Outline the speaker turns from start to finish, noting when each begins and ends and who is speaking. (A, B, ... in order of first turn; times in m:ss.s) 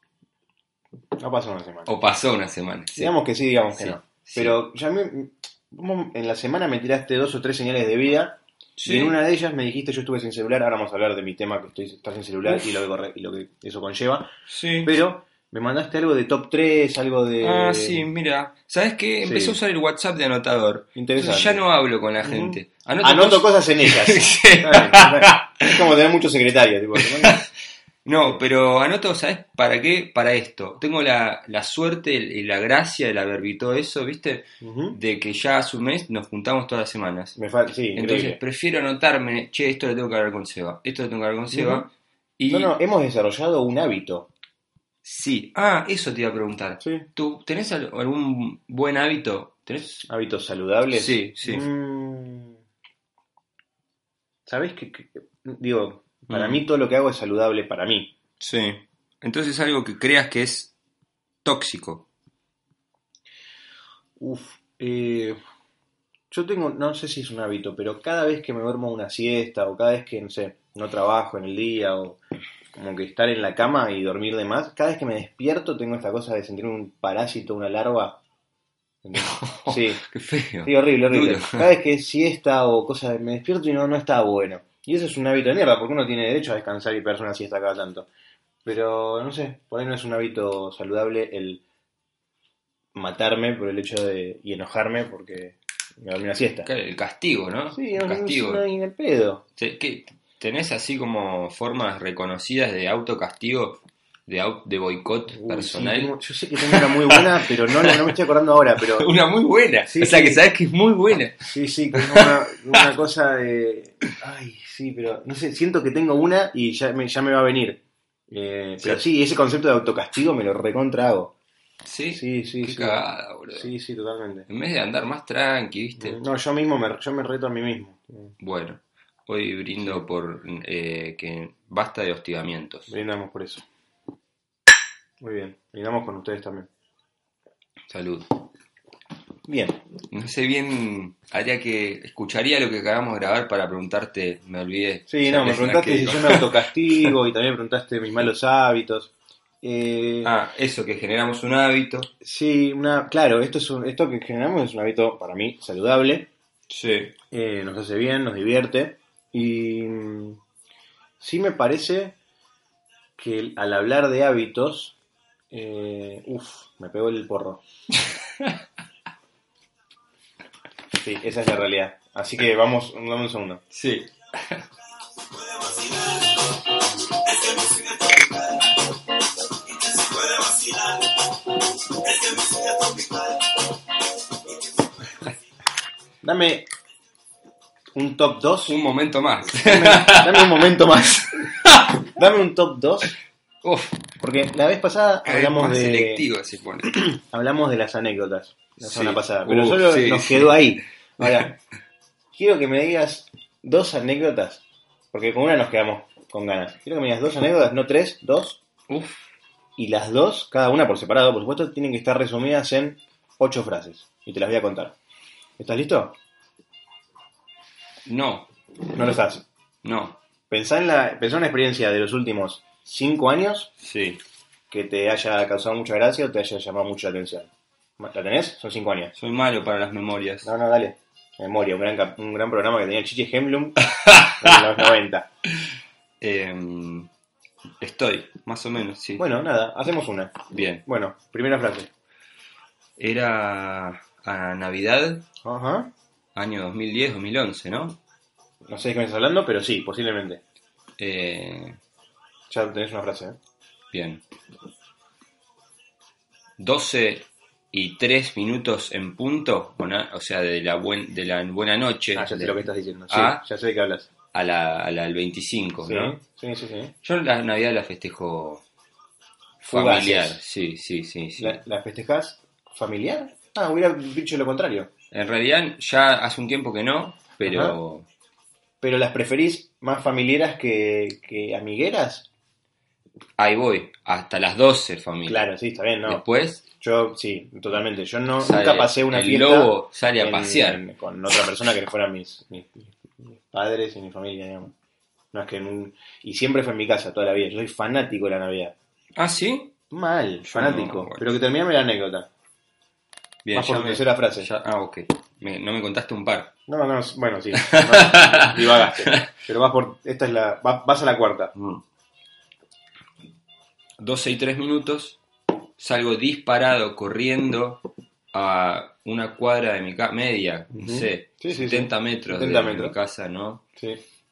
0:01.2-0:01.9 A
0:01.9-0:03.2 B
0:03.0-0:14.3 A
0:03.7-0:04.6 B
0:08.8-0:09.2 B
0:14.5-0:15.0 B
0:14.8-0:18.1 A
0:17.4-0:25.8 B
0:19.2-0:19.6 A
0:21.0-0:21.6 A
0:22.2-0:27.4 A
0:27.0-0:27.5 B
0:28.0-0:37.4 B
0:34.6-0:35.0 A
0:37.4-0:38.4 A
0:37.9-0:42.7 B
0:41.5-0:41.9 A
0:42.5-0:44.3 A
0:45.0-0:50.0 B
0:46.8-0:47.1 A
0:50.0-0:52.6 A
0:50.9-0:51.7 B
0:54.5-0:58.1 A
0:56.3-0:56.6 B
0:58.4-1:00.7 B
1:01.4-1:02.1 B
1:04.2-1:05.4 A
1:06.3-1:12.2 A
1:12.7-1:18.2 A
1:19.0-1:20.0 A
1:19.2-1:21.7 B
1:20.6-1:28.1 A
1:28.6-1:31.6 A
1:32.9-1:36.7 A
1:36.6-1:38.6 B
1:37.7-1:39.4 A
1:39.6-1:48.1 B
1:45.3-1:49.1 A
1:48.8-1:52.9 B
1:49.9-1:50.4 A
1:51.4-2:01.3 A
2:01.8-2:03.7 B
2:02.1-2:04.5 A
2:04.5-2:06.2 B
2:06.0-2:08.3 A
2:08.4-2:12.9 B
2:12.9-2:13.6 A
2:15.2-2:16.7 A
2:17.9-2:18.3 B
2:19.5-2:19.8 A
2:20.1-2:27.2 B
2:25.1-2:30.3 A
2:30.2-2:32.1 B
2:32.2-2:36.3 A
2:36.7-2:37.2 B
2:37.3-2:40.4 A
2:41.2-2:42.2 A
2:43.2-2:45.0 A
2:45.5-2:47.6 A
2:51.0-2:53.6 A
2:53.7-2:54.7 B
3:06.2-3:06.7 A
3:07.9-3:08.8 A
3:08.7-3:12.1 B
3:09.6-3:13.2 A
3:13.6-3:14.0 B
3:14.2-3:16.3 A
3:15.2-3:17.0 B
3:16.9-3:21.6 A
3:18.8-3:20.8 B
3:22.3-3:28.6 A
3:28.9-3:29.3 B
3:29.8-3:35.0 A
3:35.6-3:36.2 A
3:38.1-3:38.5 B
3:38.9-3:39.4 A
3:39.8-3:40.2 B
3:40.5-3:43.7 A
3:43.8-3:44.2 B
3:44.7-3:49.1 A
3:49.2-3:50.5 B
3:50.4-3:53.8 A
3:53.9-3:54.6 B
3:54.4-3:55.3 A
3:56.2-3:57.1 B
3:57.8-3:59.2 B
3:59.2-4:01.9 A
4:00.5-4:00.8 B
4:03.0-4:05.2 B
4:05.4-4:05.9 A
4:06.4-4:08.0 B
4:08.6-4:10.4 A
4:11.0-4:11.8 B
4:12.5-4:13.4 A
4:13.9-4:14.2 B
4:16.6-4:23.4 B
4:22.2-4:24.1 A
4:24.3-4:26.2 B
4:25.8-4:26.9 A
4:27.0-4:28.6 B
4:29.6-4:30.4 A
4:29.7-4:31.6 B
4:31.4-4:34.9 A
4:35.1-4:38.1 B
4:37.4-4:37.8 A
4:38.8-4:42.3 A
4:43.4-4:45.4 B
4:45.3-4:46.2 A
4:46.1-4:46.7 B
4:46.8-4:54.7 A
4:48.4-4:50.8 B
4:55.3-4:58.8 A
4:59.2-4:59.8 B
4:59.9-5:02.3 A
5:00.4-5:01.4 B
5:03.4-5:06.5 B
5:03.5-5:04.5 A
5:06.7-5:11.5 A
5:07.6-5:09.3 B
5:11.6-5:11.8 B
5:14.0-5:15.2 B
5:15.8-5:17.8 B
5:18.3-5:23.6 B
5:20.7-5:23.0 A